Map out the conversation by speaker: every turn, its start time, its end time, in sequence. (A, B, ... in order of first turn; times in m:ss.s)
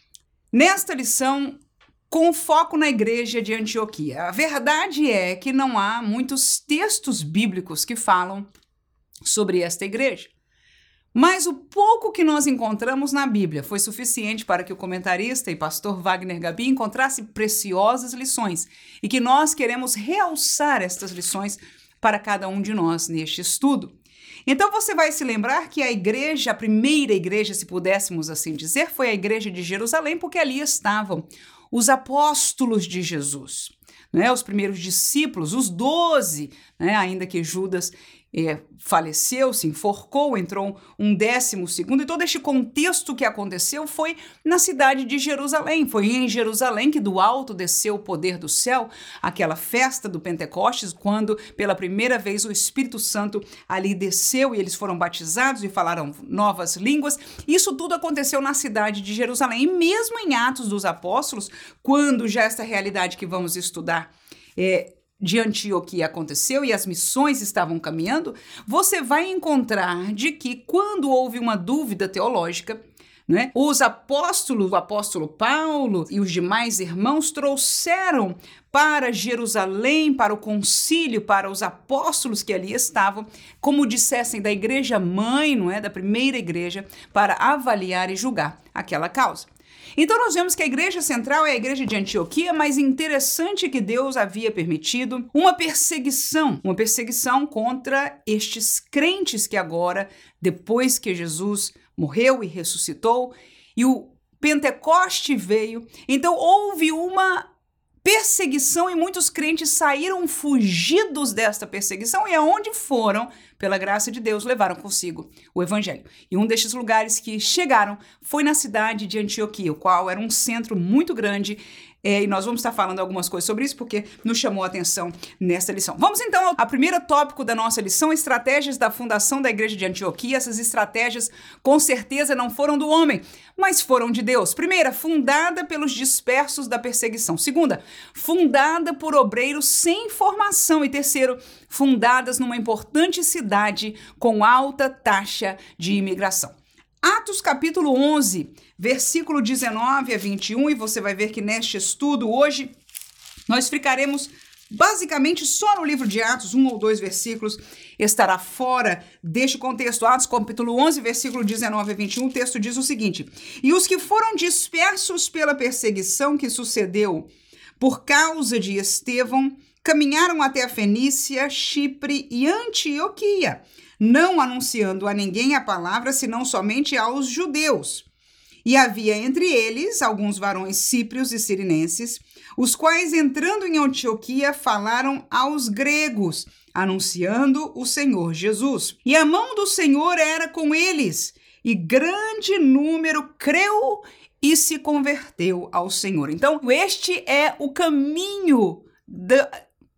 0:00.5-0:08.5 A
0:09.2-0:10.3 A
0:11.1-0:23.9 A
0:24.5-1:47.5 A
1:48.0-2:32.7 A
2:33.5-2:58.0 A
2:58.6-3:19.5 A